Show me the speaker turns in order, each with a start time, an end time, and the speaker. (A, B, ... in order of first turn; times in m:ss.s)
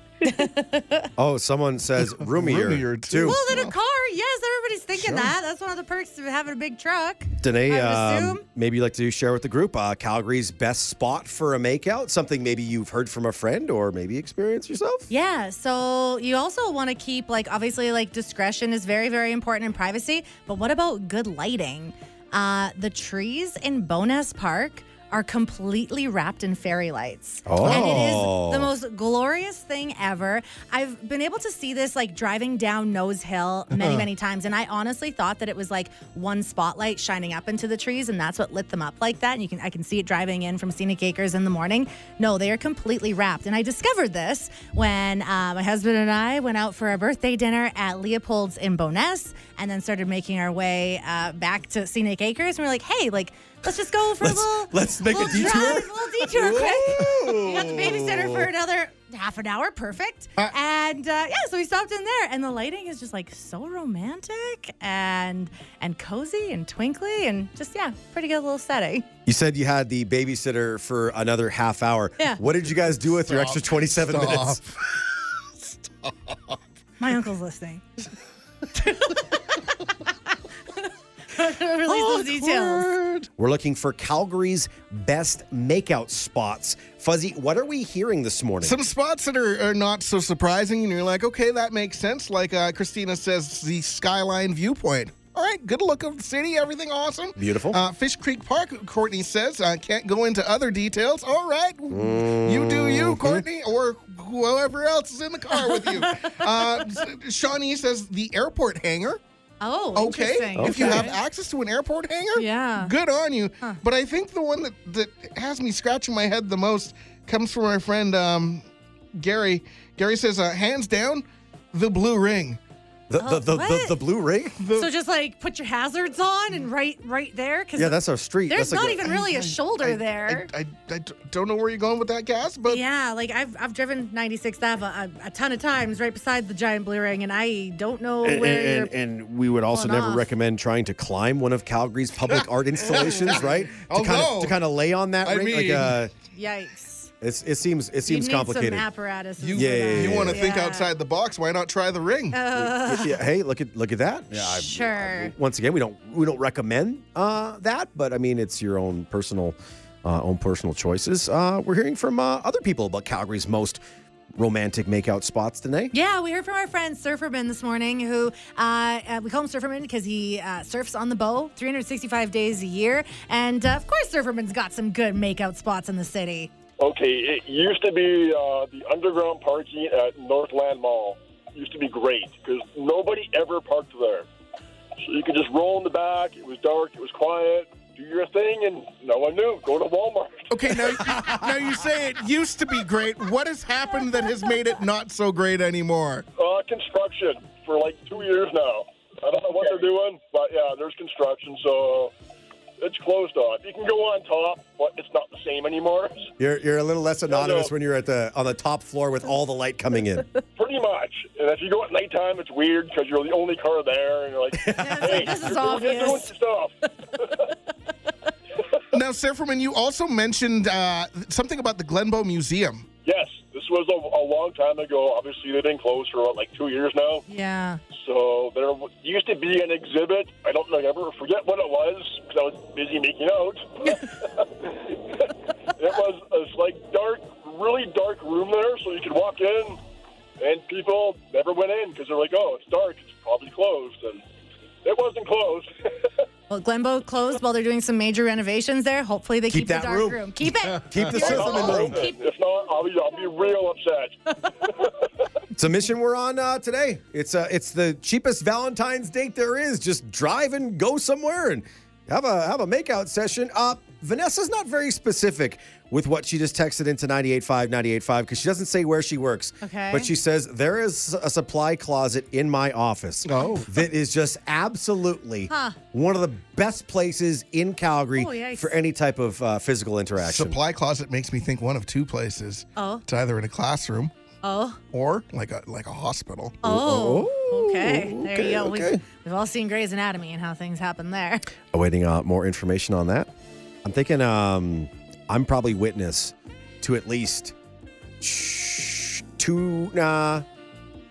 0:00.2-0:01.1 A
0:01.2-0:03.4 B
0:02.0-0:03.8 C
0:03.2-0:08.4 A
0:05.0-0:05.3 B
0:07.4-0:15.1 B
0:15.1-1:09.1 A
0:27.4-0:28.7 B
0:27.6-0:28.3 C
0:33.7-0:34.0 C
0:54.2-0:58.5 B
0:55.2-0:55.7 C
0:56.3-0:57.7 C
1:09.2-1:14.6 B
1:13.0-1:16.6 C
1:17.0-1:18.1 A
1:18.7-1:20.1 A
1:21.3-1:22.9 A
1:21.8-1:23.3 C
1:23.4-1:28.8 B
1:28.6-1:49.2 C
1:37.4-1:37.8 B
1:41.9-1:43.4 B
1:45.6-1:46.8 A
1:49.6-1:51.2 A
1:49.9-2:02.6 C
1:50.5-1:51.1 B
1:52.4-1:52.9 A
2:03.1-2:04.6 B
2:03.2-2:04.0 A
2:04.6-2:04.9 C
2:04.7-2:08.0 A
2:07.8-2:09.1 B
2:08.5-2:10.5 A
2:09.0-2:12.8 C
2:12.7-2:18.9 A
2:18.2-2:26.1 B
2:19.7-2:20.3 A
2:22.3-2:24.6 C
2:25.2-2:26.0 C
2:26.3-2:27.1 A
2:27.2-2:28.8 B
2:28.0-2:30.9 A
2:29.4-2:32.4 C
2:29.5-2:30.4 B
2:32.3-2:33.2 A
2:32.5-2:43.8 B
2:34.3-2:35.3 A
2:44.4-2:45.9 B
2:45.9-2:56.5 A
2:56.8-3:04.2 D
3:05.0-3:11.0 D
3:10.5-3:16.2 C
3:16.4-3:22.1 D
3:22.8-3:26.3 D
3:26.4-3:30.3 B
3:27.3-3:27.7 D
3:30.6-3:37.4 D
3:34.5-3:35.4 B
3:34.8-3:36.3 A
3:38.9-3:42.9 C
3:43.0-3:47.2 D
3:47.3-3:47.8 A
3:48.0-3:59.8 D
4:00.4-4:04.2 D
4:04.8-4:06.1 D
4:06.5-4:12.2 A
4:09.5-4:12.0 B
4:10.9-4:11.3 C
4:11.2-4:15.0 D
4:15.6-4:40.6 B
4:29.6-4:30.1 A
4:33.2-4:33.7 C
4:35.5-4:35.8 A
4:38.2-4:38.7 A
4:40.2-4:44.1 C
4:42.8-4:43.0 A
4:44.4-4:44.8 A
4:44.9-4:46.6 C
4:46.6-4:49.0 B
4:46.6-4:51.5 A
4:51.7-4:53.3 B
4:53.8-4:57.5 B
4:58.2-5:00.4 B